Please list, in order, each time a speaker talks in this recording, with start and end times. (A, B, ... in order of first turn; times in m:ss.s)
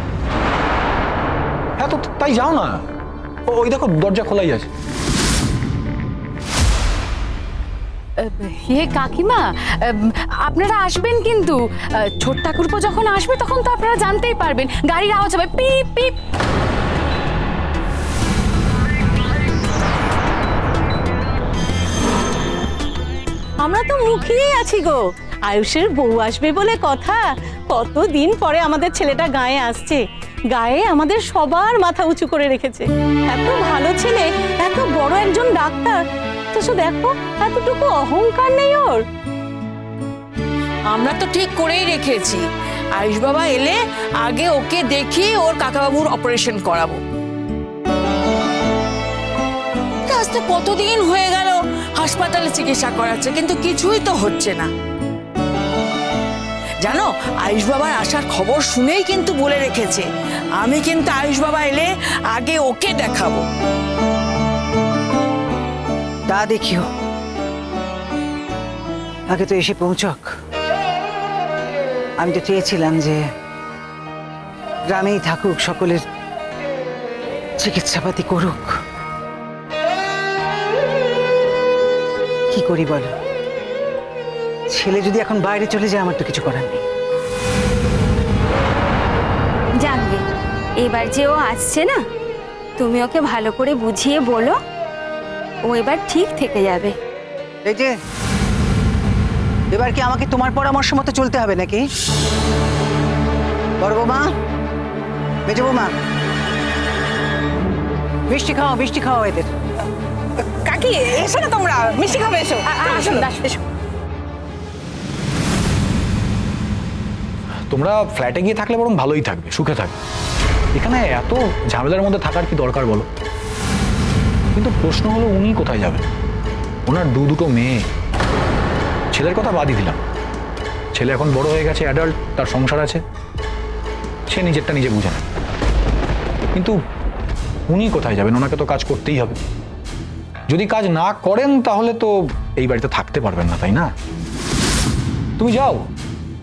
0:01.8-0:02.8 A
0:03.5-0:04.7 A
0:08.2-0:11.6 B
0:12.2-0:16.2 B
0:23.6-0:30.0 C
0:30.5-0:36.0 C
0:36.5-0:39.0 C
0:40.9-0:47.0 D
0:50.1-0:54.7 D
0:56.8-1:00.1 D
1:00.6-1:03.4 D
1:06.3-1:06.9 E
1:09.3-1:10.3 E
1:12.2-1:13.2 E
1:14.9-1:16.0 E
1:17.6-1:18.8 E
1:22.5-1:23.1 E
1:24.7-1:26.8 E
1:29.8-1:30.2 F
1:30.8-1:32.0 F
1:32.8-1:34.6 F
1:35.6-1:37.0 F
1:37.6-1:38.0 E
1:39.7-1:41.8 E
1:43.8-1:44.3 E
1:45.5-1:45.9 E
1:48.3-1:49.5 E
1:50.7-1:53.3 D
1:57.7-2:00.0 A
2:00.8-2:03.1 A
2:04.6-2:06.1 A
2:06.9-2:07.8 A
2:09.1-2:10.0 A
2:10.9-2:13.0 A
2:14.3-2:15.3 A
2:17.7-2:19.4 A
2:20.5-2:23.9 A
2:25.4-2:25.9 A